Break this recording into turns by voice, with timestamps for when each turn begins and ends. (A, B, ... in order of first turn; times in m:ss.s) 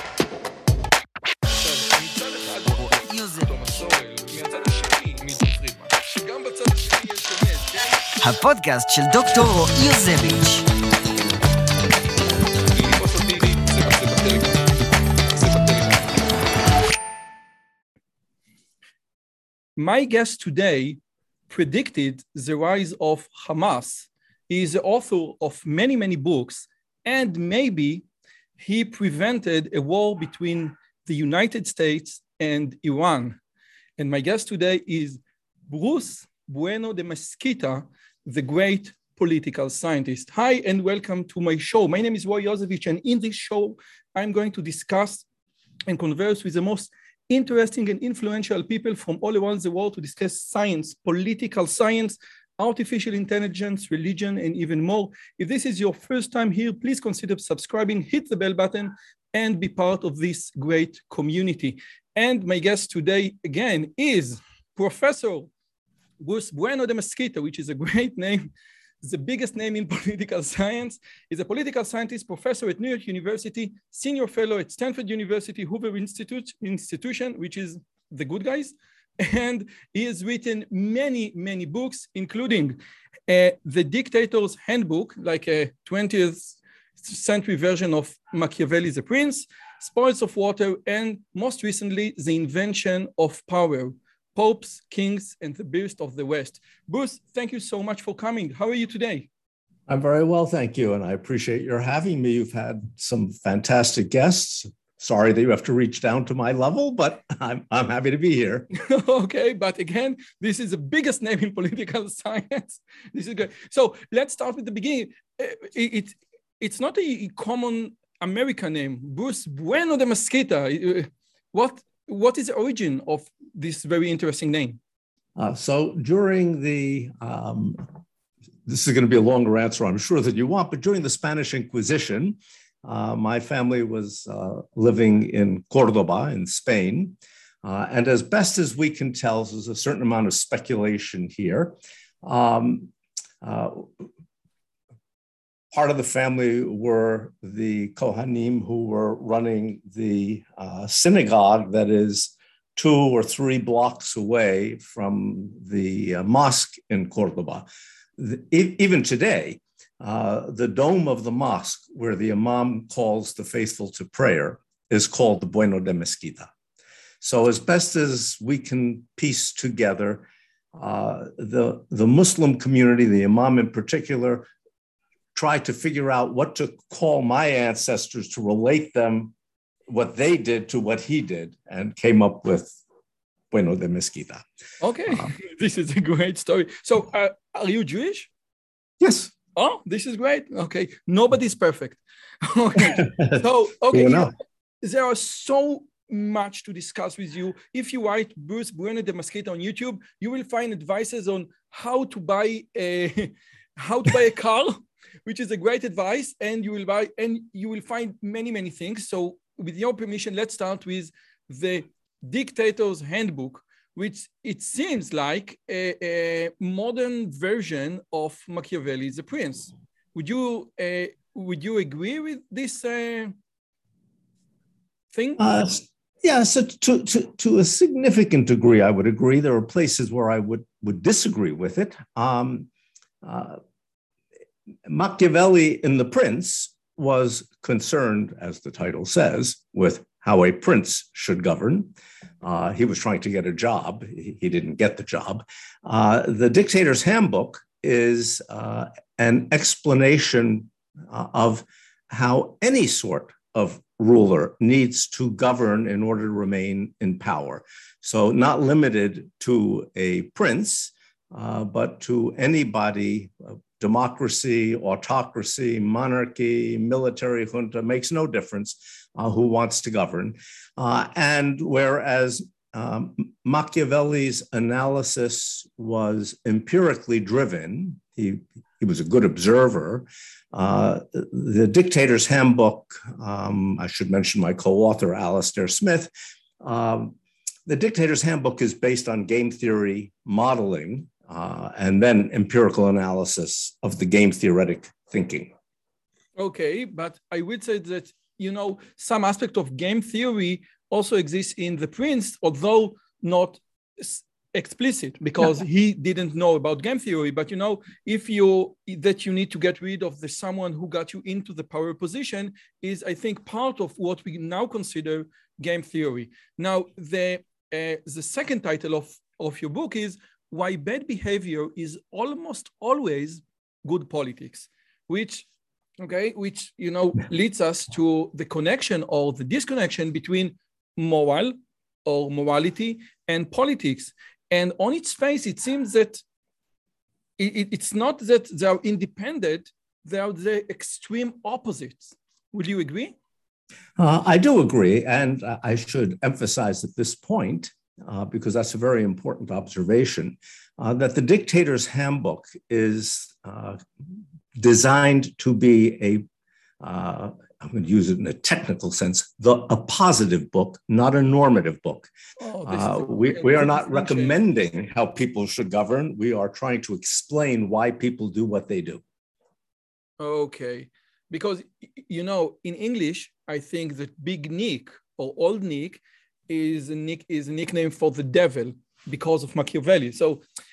0:01.6-0:07.9 A
0:08.2-0:10.7 B
0:12.7-0:14.7 A
0:15.3-0:16.2 A
0:19.8-0:28.1 A
0:28.6-0:33.4 A
0:34.0-0:45.3 A
0:45.9-1:05.5 A
1:06.2-1:39.3 A
1:39.9-1:48.7 C
1:48.7-2:04.8 A
2:05.4-2:07.8 C
2:08.7-2:22.9 C
2:23.4-2:24.1 C
2:25.7-2:37.7 C
2:38.2-2:46.5 C
2:47.2-2:54.5 C
2:55.4-2:59.3 C
2:59.9-3:02.8 C
3:03.5-3:04.4 C
3:04.8-3:08.3 A
3:09.0-3:09.3 C
3:09.6-3:14.3 A
3:12.8-3:14.3 C
3:14.8-3:43.3 A
3:45.1-3:45.4 A
3:45.4-3:52.7 C
3:53.2-3:53.6 C
3:54.9-4:47.2 C
4:47.7-4:55.5 C
4:56.4-5:25.5 A
5:26.0-5:36.2 A
5:37.4-5:43.2 A
5:44.0-5:53.9 C
5:54.6-5:56.2 C
5:56.8-6:02.1 C
6:02.4-6:04.4 A
6:02.7-6:09.0 C
6:10.2-6:20.4 A